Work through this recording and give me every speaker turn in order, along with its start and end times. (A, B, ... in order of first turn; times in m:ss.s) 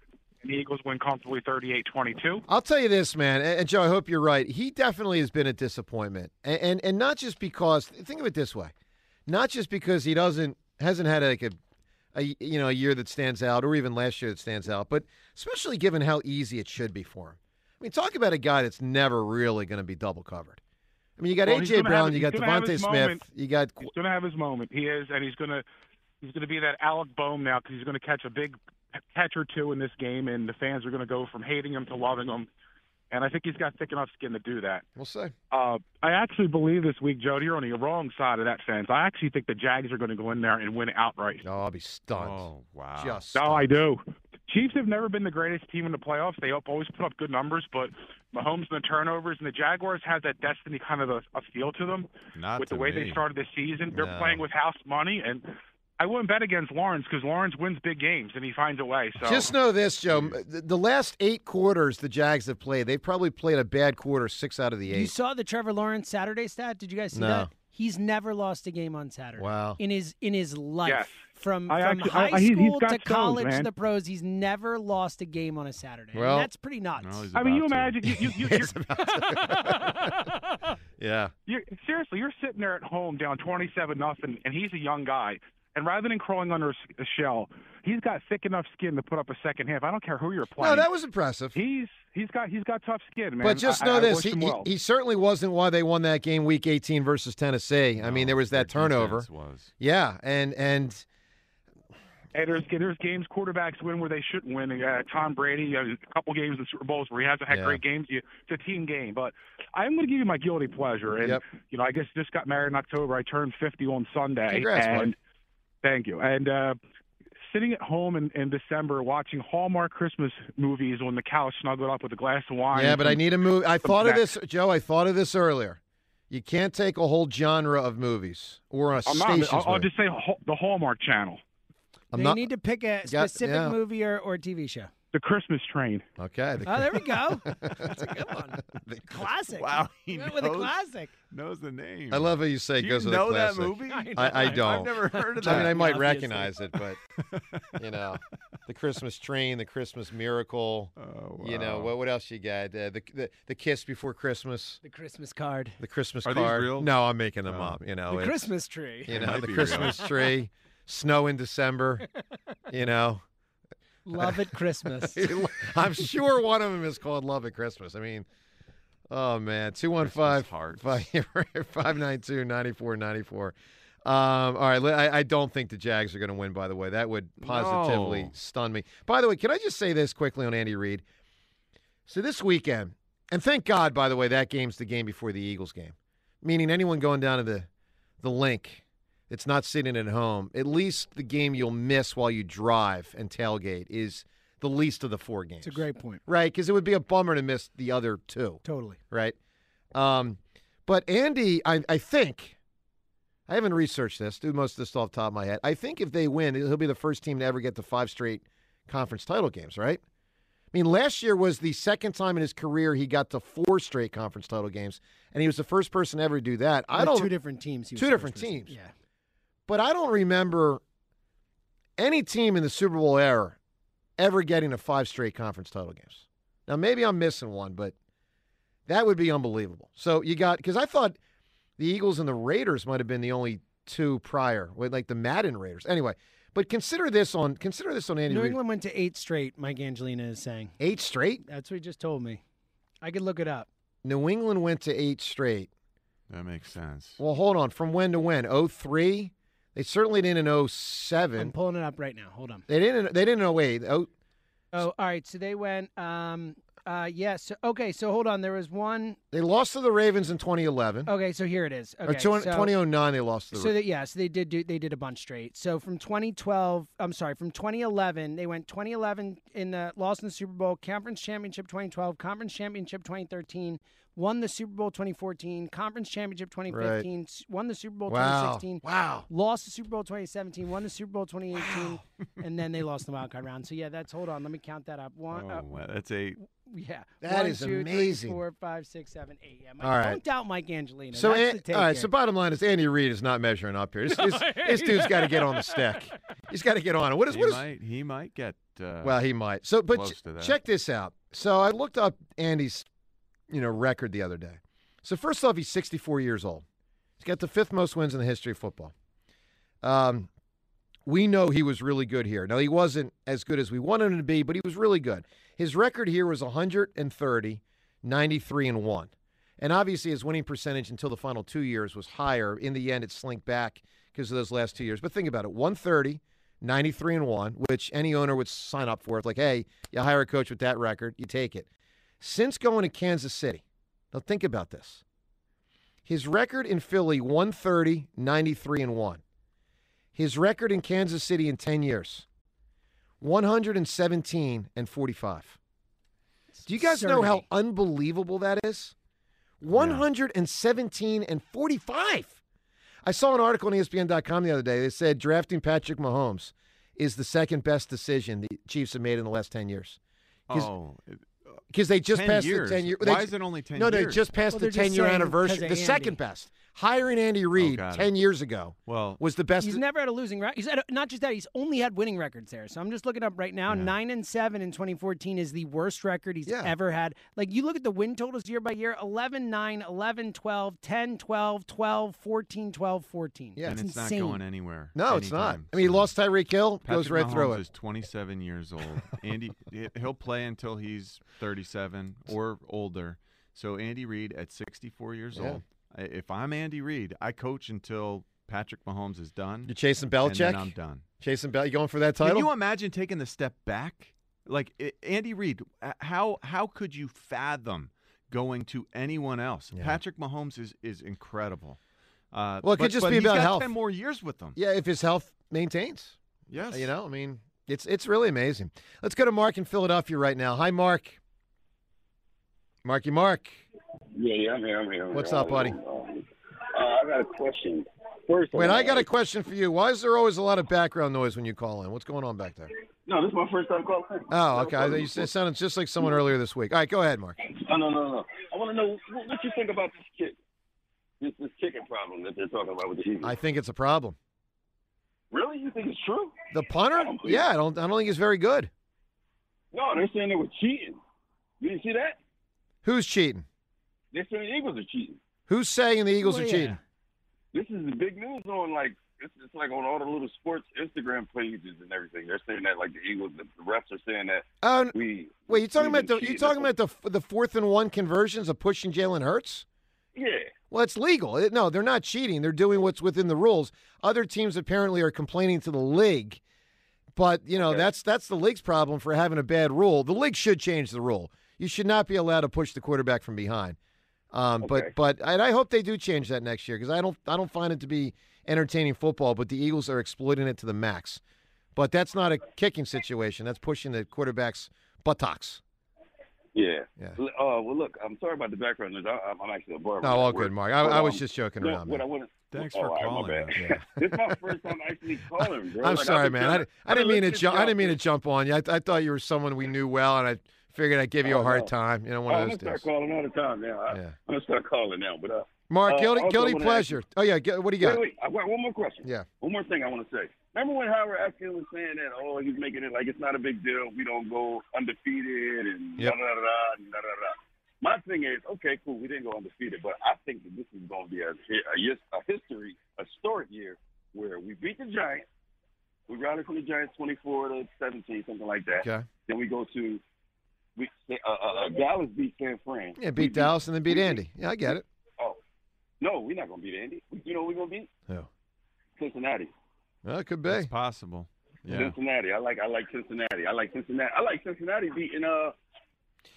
0:00.4-0:02.4 A
0:02.5-0:08.7 B
0:09.3-0:11.6 B
0:12.1-0:20.6 B
0:21.2-0:23.9 B
0:21.4-0:23.2 A
0:23.8-0:25.6 A
0:26.2-0:28.6 A
0:29.1-0:32.5 A
0:33.1-0:34.8 A
0:35.0-0:35.3 B
0:35.5-0:41.4 A
0:41.4-0:43.7 B
0:42.1-0:43.2 C
0:43.3-0:55.5 A
0:52.3-0:53.2 C
0:53.9-0:54.4 B
0:56.0-0:59.5 A
0:59.2-1:05.1 B
1:00.1-1:00.4 C
1:04.9-1:17.3 D
1:07.1-1:07.5 B
1:09.4-1:09.8 B
1:10.8-1:13.7 A
1:16.1-1:16.5 B
1:17.0-1:18.0 C
1:17.3-1:18.7 A
1:18.0-1:20.2 B
1:19.1-1:20.2 D
1:21.0-1:21.3 B
1:21.5-1:30.9 A
1:30.6-1:31.6 B
1:31.5-1:34.7 A
1:33.4-1:39.3 B
1:38.0-1:39.7 C
1:39.8-1:41.0 B
1:42.3-1:55.2 A
1:47.5-1:47.8 B
1:54.5-1:55.1 B
1:55.8-1:56.8 A
1:57.5-2:03.2 A
2:02.7-2:05.8 B
2:03.8-2:04.2 A
2:06.3-2:09.9 B
2:09.0-2:11.4 A
2:12.1-2:12.4 B
2:12.1-2:14.9 D
2:13.0-2:13.8 B
2:15.1-2:16.0 A
2:16.2-2:19.3 B
2:16.6-2:21.1 D
2:19.6-2:20.8 C
2:21.3-2:26.1 C
2:22.1-2:27.0 B
2:23.9-2:26.5 D
2:27.2-2:27.8 C
2:27.8-2:34.8 B
2:31.0-2:31.9 C
2:34.8-2:35.8 D
2:35.8-2:38.5 B
2:36.2-2:36.9 C
2:37.5-2:37.8 C
2:38.1-2:39.9 D
2:39.1-2:42.0 B
2:39.1-2:40.1 C
2:42.7-2:43.2 B
2:44.0-2:45.3 D
2:45.0-2:48.3 B
2:49.1-3:01.0 B
2:50.0-2:51.0 C
2:57.4-2:58.3 C
3:02.1-3:07.7 B
3:08.2-3:19.4 B
3:15.6-3:16.2 D
3:18.6-3:19.0 D
3:19.9-3:22.6 B
3:23.5-3:30.0 B
3:30.7-3:37.3 B
3:36.9-3:38.9 D
3:38.0-3:38.7 B
3:39.7-3:40.8 B
3:42.0-3:43.6 B
3:44.2-3:47.9 B
3:48.9-3:51.2 B
3:51.8-3:58.6 B
3:58.3-4:00.8 D
4:00.8-4:01.4 B
4:01.4-4:02.4 D
4:03.0-4:03.7 D
4:04.0-4:05.7 B
4:06.3-4:07.2 C
4:07.2-4:11.5 B
4:11.4-4:12.6 D
4:12.7-4:14.1 B
4:14.7-4:19.2 D
4:19.3-4:21.1 B
4:21.0-4:22.7 D
4:22.0-4:23.8 B
4:23.5-4:45.7 D
4:36.7-4:37.1 B
4:38.1-4:39.3 B
4:45.3-4:46.4 C
4:46.5-4:52.1 D
4:47.2-4:48.4 B
4:49.8-4:50.2 B
4:51.1-4:57.6 B
4:54.1-4:56.0 D
4:57.3-4:59.2 C
4:59.0-5:02.9 B
4:59.9-5:00.6 C
5:03.5-5:06.6 B
5:07.2-5:08.9 B
5:09.8-5:10.3 B
5:11.0-5:31.7 B
5:32.2-5:35.0 B
5:36.0-5:39.2 B
5:40.1-5:42.2 B
5:43.2-5:45.6 B
5:46.5-5:47.4 D
5:46.6-5:48.9 B
5:49.6-5:52.4 B
5:49.7-5:50.0 C
5:53.0-6:00.0 B
6:00.5-6:04.2 C
6:01.7-6:09.8 B
6:04.5-6:06.2 D
6:07.6-6:08.1 C
6:08.9-6:09.2 C
6:09.6-6:24.4 D
6:16.4-6:16.7 B
6:23.6-6:26.1 C
6:24.9-6:27.6 B
6:26.8-6:41.0 C
6:35.3-6:35.6 B
6:39.6-6:42.5 B
6:42.2-6:51.8 C
6:49.7-6:50.0 B
6:52.3-6:54.6 C
6:52.6-6:53.7 B
6:54.5-7:01.2 B
6:56.5-6:56.9 C
7:02.8-7:03.6 B
7:04.1-7:09.1 E
7:05.1-7:05.8 B
7:08.5-7:12.7 B
7:13.0-7:15.3 E
7:14.3-7:17.4 B
7:16.0-7:16.2 E
7:17.4-7:20.4 E
7:21.2-7:23.4 E
7:23.2-7:24.2 B
7:25.3-7:26.4 E
7:26.5-7:28.7 B
7:26.9-7:27.4 E
7:29.7-7:31.0 E
7:31.6-7:32.2 E
7:32.8-7:33.4 B
7:34.1-7:35.2 E
7:35.5-7:36.8 B
7:36.2-7:36.8 D
7:37.5-7:46.7 E
7:44.6-7:49.6 B
7:50.1-7:50.5 E
7:50.7-7:56.4 B
7:57.1-8:03.8 B
7:57.6-7:57.9 E
8:04.3-8:11.2 B
8:04.6-8:04.9 E
8:11.8-8:15.6 B
8:16.5-8:28.0 E
8:20.0-8:22.0 B
8:22.5-8:23.7 C
8:23.5-8:24.4 B
8:25.6-8:32.8 B
8:31.2-8:31.7 E
8:32.3-8:37.0 E
8:33.9-8:34.2 B
8:35.7-8:38.0 B
8:37.8-8:55.2 E
8:56.1-9:00.0 E
8:58.8-8:59.1 B
9:00.8-9:04.2 E
9:03.0-9:04.8 B
9:06.0-9:07.9 E
9:09.0-9:09.5 E
9:10.0-9:10.7 B
9:10.5-9:11.9 C
9:11.7-9:15.6 E